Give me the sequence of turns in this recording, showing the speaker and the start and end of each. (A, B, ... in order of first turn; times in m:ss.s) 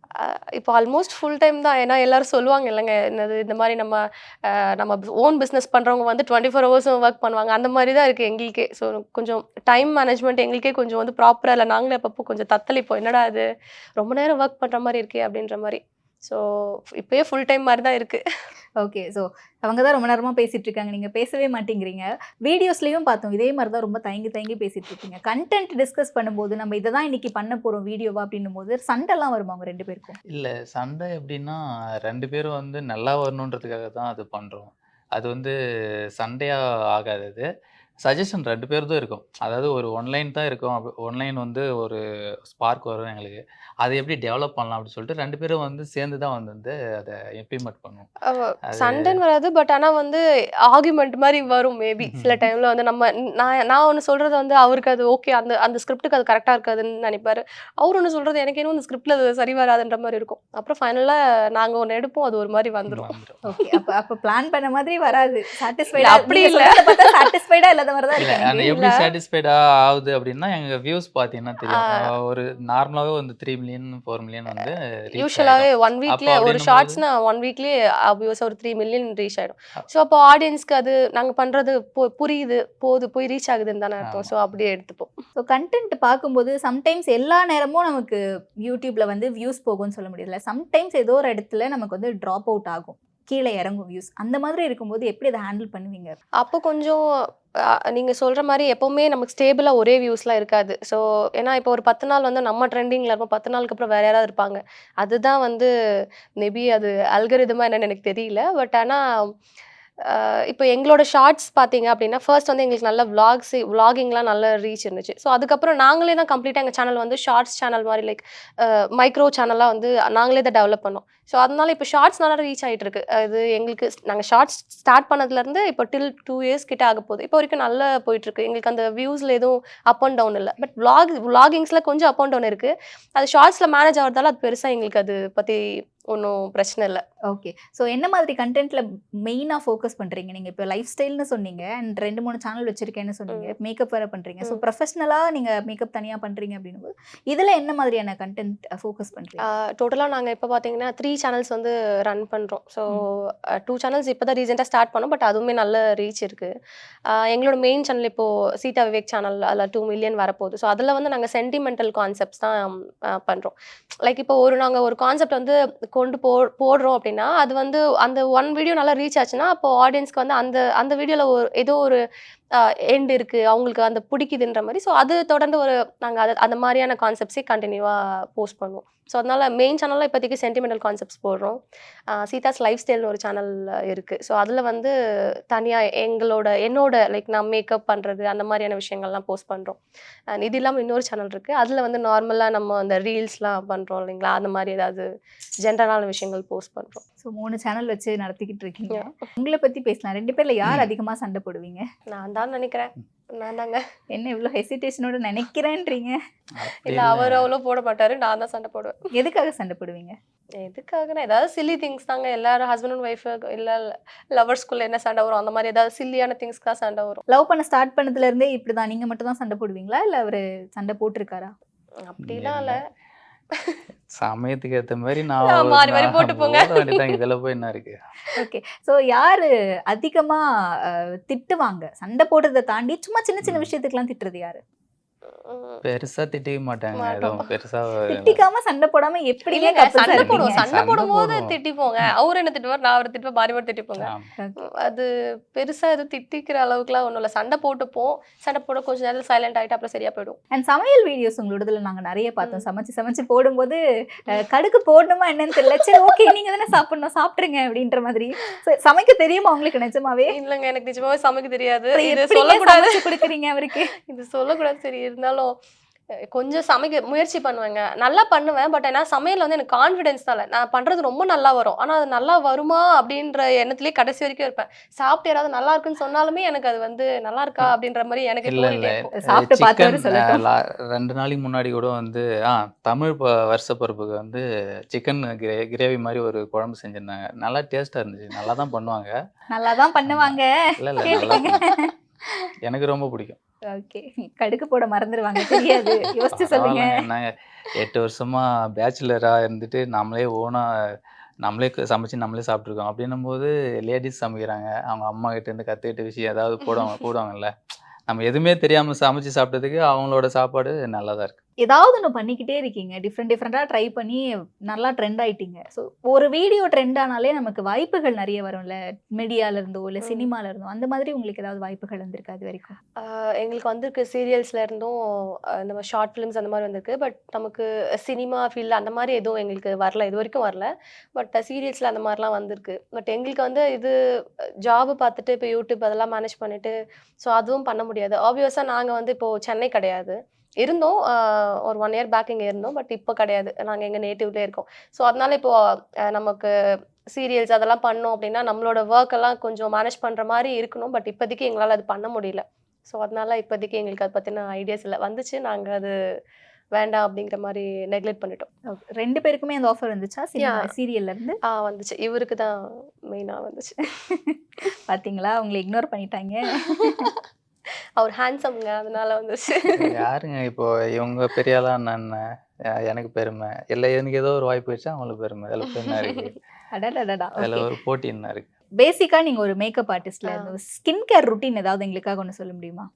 0:00.2-0:13.4 A
0:14.0-0:16.4 A
0:17.0-0:18.2 A
0:18.8-0:30.2 B
0:30.3-0:35.5 C
0:36.2-0:37.4 C
0:38.0-0:48.1 C
0:48.3-1:03.1 A
0:48.7-0:49.2 C
0:52.1-0:52.4 C
1:02.9-1:03.4 C
1:03.4-1:08.7 B
1:06.0-1:07.1 A
1:08.2-1:17.0 C
1:08.6-1:08.9 A
1:11.7-1:12.0 A
1:15.1-1:25.1 A
1:25.4-1:36.2 B
1:36.4-1:37.0 A
1:37.9-1:45.7 A
1:46.4-1:49.0 A
1:50.0-2:15.6 A
2:16.1-2:17.0 A
2:17.3-2:29.4 B
2:29.4-2:36.5 A
2:37.1-2:52.0 A
2:52.5-3:01.6 A
3:02.1-3:04.9 A
3:05.5-3:09.8 A
3:10.3-3:15.0 A
3:15.6-3:17.0 A
3:17.2-3:21.8 B
3:22.1-3:23.8 A
3:24.1-3:26.2 B
3:26.6-3:27.5 C
3:26.9-3:29.0 A
3:29.1-3:30.1 B
3:30.6-3:37.2 A
3:37.3-3:41.5 B
3:42.0-3:42.8 A
3:42.2-3:42.8 C
3:44.2-3:48.0 C
3:45.4-3:47.2 A
3:48.4-3:54.6 B
3:53.4-3:53.7 C
3:55.4-3:55.8 A
3:55.8-3:58.4 C
3:57.0-3:57.4 A
3:58.1-4:00.6 B
3:59.5-4:04.1 A
4:00.1-4:02.1 C
4:04.1-4:04.3 C
4:04.8-4:10.4 A
4:10.5-4:13.8 B
4:14.3-4:20.3 B
4:15.6-4:16.1 A
4:20.3-4:23.2 A
4:21.9-4:23.9 B
4:24.1-4:25.5 A
4:26.3-4:39.1 A
4:38.5-4:49.1 C
4:39.2-4:40.4 B
4:49.5-4:50.5 B
4:50.0-4:51.9 C
4:51.0-4:52.3 B
4:52.6-4:53.4 C
4:53.7-4:57.0 B
4:55.4-4:56.1 A
4:56.3-5:00.6 C
5:01.4-5:07.5 C
5:08.1-5:11.4 C
5:11.6-5:22.7 B
5:23.0-5:33.9 A
5:34.6-5:45.6 A
5:46.1-5:46.5 A
5:47.1-5:55.9 A
5:56.7-5:58.5 A
5:58.7-6:01.4 B
6:01.5-6:02.5 A
6:03.1-6:03.8 A
6:04.2-6:07.0 B
6:06.7-6:07.1 A
6:08.0-6:09.8 A
6:09.6-6:09.9 B
6:09.8-6:12.2 C
6:12.8-6:16.4 C
6:16.7-6:17.7 B
6:17.4-6:18.5 C
6:18.8-6:22.8 B